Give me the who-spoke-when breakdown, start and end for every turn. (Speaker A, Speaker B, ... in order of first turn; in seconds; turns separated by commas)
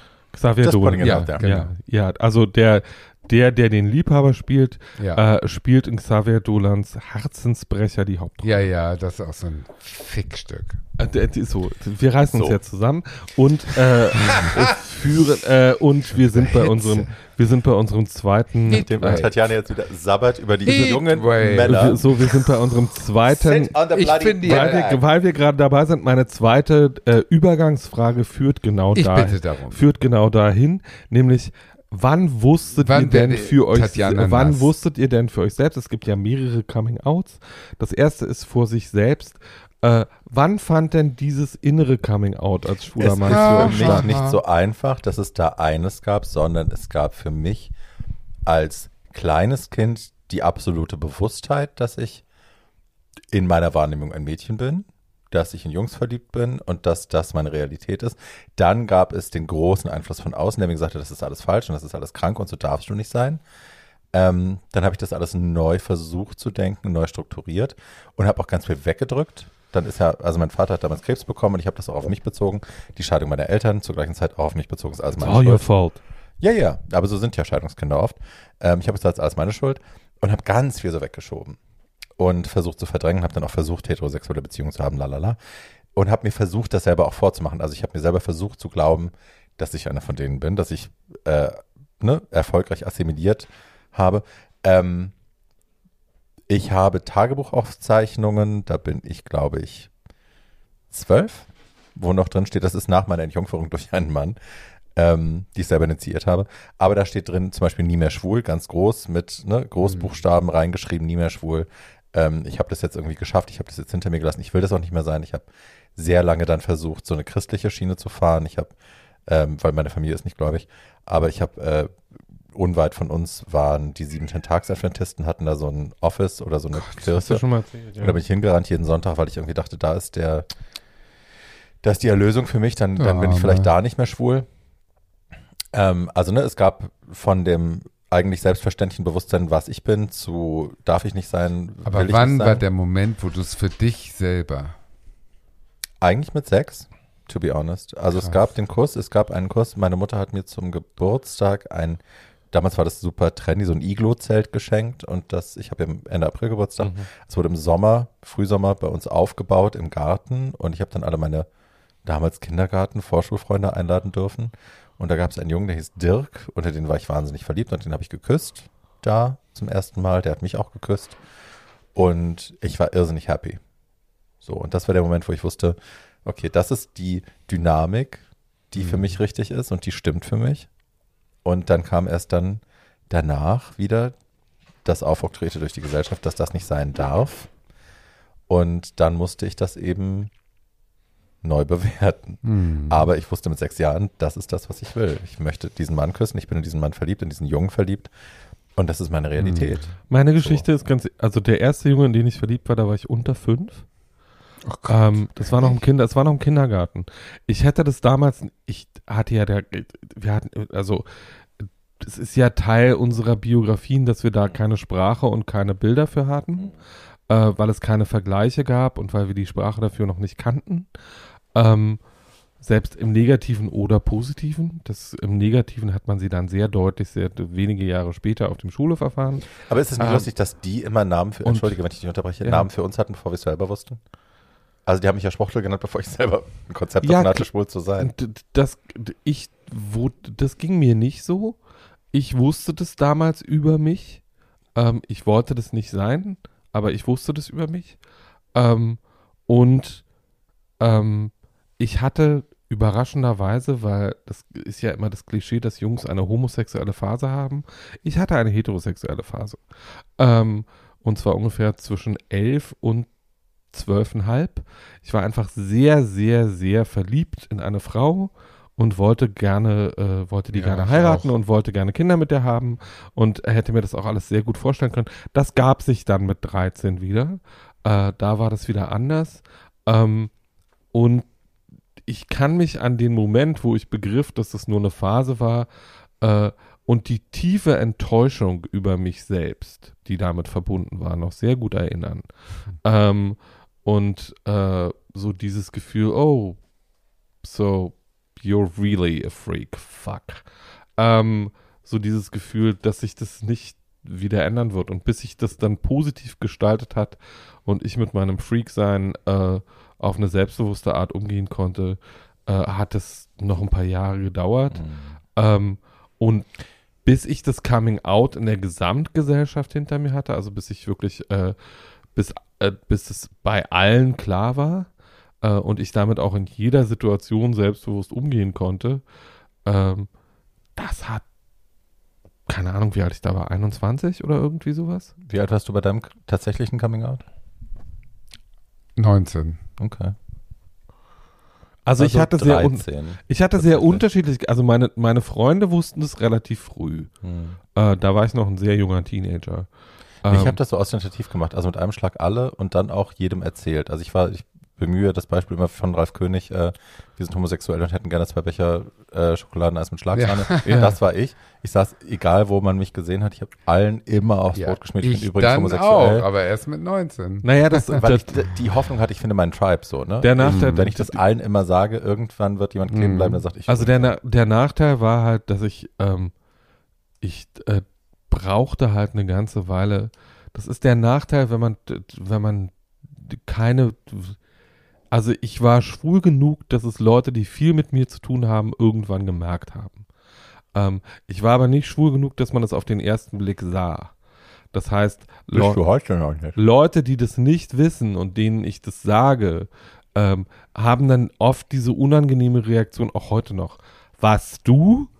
Speaker A: 0.3-8.6, Speaker B: 0.6-1.5, Speaker C: 1.0-1.7, Speaker C: 8.4-10.8, Speaker A: 11.0-19.3, Speaker B: 12.3-12.6, Speaker C: 14.2-14.8, Speaker C: 16.1-17.1, Speaker B: 18.7-22.2, Speaker C: 18.7-19.3, Speaker C: 20.6-21.8, Speaker A: 21.6-23.7, Speaker B: 23.3-25.0, Speaker C: 23.9-24.8, Speaker A: 24.4-44.1, Speaker C: 28.9-29.8, Speaker C: 32.8-34.7, Speaker B: 43.0-47.7, Speaker C: 43.3-44.4, Speaker B: 48.5-52.2, Speaker B: 53.3-63.4, Speaker B: 64.1-75.7, Speaker A: 75.2-76.0, Speaker B: 76.4-81.6, Speaker B: 82.2-85.4, Speaker B: 85.9-95.1, Speaker B: 96.5-99.9, Speaker B: 100.9-104.4, Speaker B: 104.9-118.7, Speaker B: 119.3-121.9, Speaker B: 122.5-127.4, Speaker A: 127.0-128.2, Speaker B: 128.0-130.4, Speaker B: 131.8-134.4, Speaker C: 133.0-133.7, Speaker B: 135.7-142.6, Speaker C: 141.9-144.8, Speaker B: 146.0-161.5, Speaker A: 156.8-157.1, Speaker B: 162.0-171.2, Speaker B: 171.9-173.6, Speaker B: 174.4-180.7, Speaker B: 181.4-184.2, Speaker B: 184.8-187.5, Speaker B: 188.5-190.3, Speaker B: 191.4-198.1, Speaker C: 192.4-193.1, Speaker B: 198.8-200.6, Speaker C: 199.4-199.8, Speaker A: 200.1-203.8, Speaker C: 204.7-205.8, Speaker A: 204.9-211.0, Speaker A: 211.6-216.7, Speaker A: 217.3-220.9, Speaker A: 221.5-222.0, Speaker A: 222.6-230.3, Speaker B: 229.6-234.0, Speaker A: 231.4-231.8, Speaker A: 232.4-232.7, Speaker B: 234.8-238.1, Speaker A: 237.0-237.5, Speaker A: 238.0-241.6, Speaker A: 242.1-244.2, Speaker A: 244.7-248.0, Speaker A: 248.5-250.0, Speaker A: 250.8-259.6, Speaker A: 260.2-263.1, Speaker A: 263.7-280.3, Speaker C: 270.5-271.3, Speaker A: 280.9-281.2, Speaker A: 282.1-285.7, Speaker A: 286.2-296.6, Speaker A: 297.4-300.4, Speaker A: 301.0-314.8, Speaker B: 314.7-315.1, Speaker A: 315.4-316.5, Speaker A: 317.0-321.6, Speaker A: 322.1-324.9, Speaker A: 325.4-329.0, Speaker A: 329.6-330.1, Speaker A: 330.8-331.2, Speaker A: 332.5-335.1, Speaker B: 335.2-337.2, Speaker C: 339.0-339.6, Speaker B: 339.8-340.1, Speaker A: 341.9-347.1, Speaker B: 342.0-344.0, Speaker B: 347.2-347.6, Speaker A: 347.8-349.7, Speaker A: 350.2-350.6, Speaker B: 350.3-366.3, Speaker C: 360.1-360.7, Speaker A: 360.6-360.9, Speaker C: 364.5-368.0, Speaker A: 367.4-368.3, Speaker B: 367.9-374.1, Speaker A: 370.2-371.2, Speaker C: 370.4-370.9, Speaker C: 372.9-373.4, Speaker A: 373.7-376.3, Speaker A: 377.2-384.4, Speaker A: 385.1-390.1, Speaker A: 390.7-394.1, Speaker A: 394.7-395.8, Speaker B: 395.5-396.6, Speaker A: 396.5-405.1